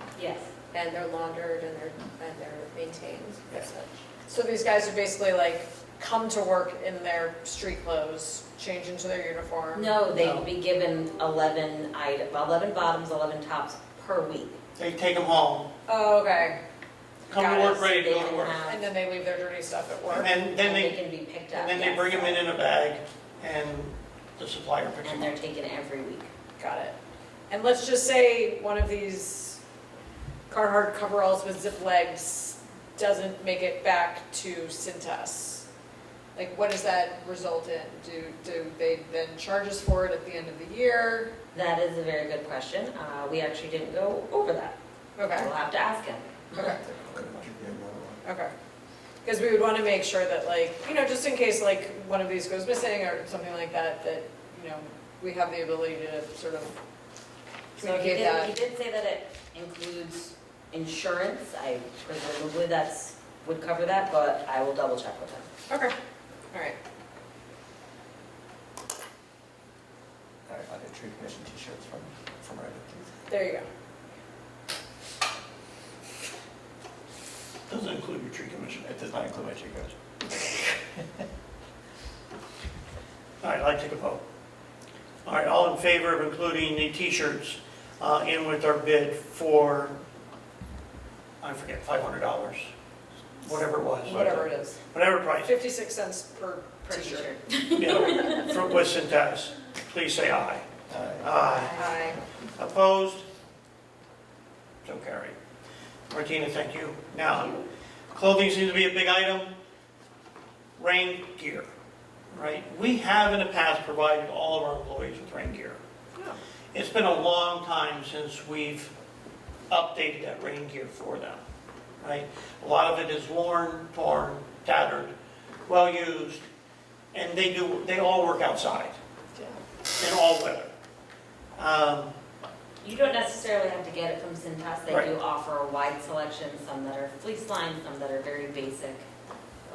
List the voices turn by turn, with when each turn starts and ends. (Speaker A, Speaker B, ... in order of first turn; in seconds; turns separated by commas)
Speaker A: 0.1-0.5, Speaker B: 0.7-4.0, Speaker C: 4.3-10.1, Speaker A: 9.7-14.6, Speaker D: 10.1-10.5, Speaker D: 14.8-15.7, Speaker C: 15.9-16.6, Speaker D: 17.3-18.7, Speaker C: 17.3-17.9, Speaker A: 17.4-18.8, Speaker C: 18.7-20.4, Speaker D: 20.1-25.4, Speaker A: 20.4-22.5, Speaker A: 25.0-26.3, Speaker C: 26.6-27.0, Speaker C: 27.5-29.6, Speaker C: 30.5-35.7, Speaker C: 36.4-41.3, Speaker A: 41.5-46.6, Speaker C: 45.2-45.5, Speaker E: 46.6-48.2, Speaker C: 48.2-48.5, Speaker C: 49.2-56.8, Speaker C: 57.8-58.6, Speaker A: 57.8-65.5, Speaker C: 66.5-66.8, Speaker E: 70.5-73.1, Speaker C: 73.3-73.7, Speaker D: 77.7-78.9, Speaker E: 78.8-79.9, Speaker D: 83.4-84.2, Speaker D: 85.2-90.0, Speaker D: 91.4-92.7, Speaker D: 93.4-94.2, Speaker C: 94.1-94.8, Speaker E: 94.1-94.5, Speaker D: 94.9-95.5, Speaker C: 95.4-97.3, Speaker A: 96.9-98.7, Speaker D: 97.8-100.7, Speaker E: 100.9-101.3, Speaker D: 101.2-101.8, Speaker C: 101.8-102.2, Speaker D: 102.6-103.2, Speaker D: 104.8-105.4, Speaker D: 106.1-107.6, Speaker D: 108.1-109.5, Speaker D: 110.8-111.7, Speaker D: 112.3-115.8, Speaker D: 116.7-118.9, Speaker D: 119.7-121.4, Speaker D: 122.0-125.1, Speaker D: 125.7-126.5, Speaker D: 127.1-129.0, Speaker D: 130.0-130.7, Speaker D: 131.6-132.1, Speaker A: 132.8-139.1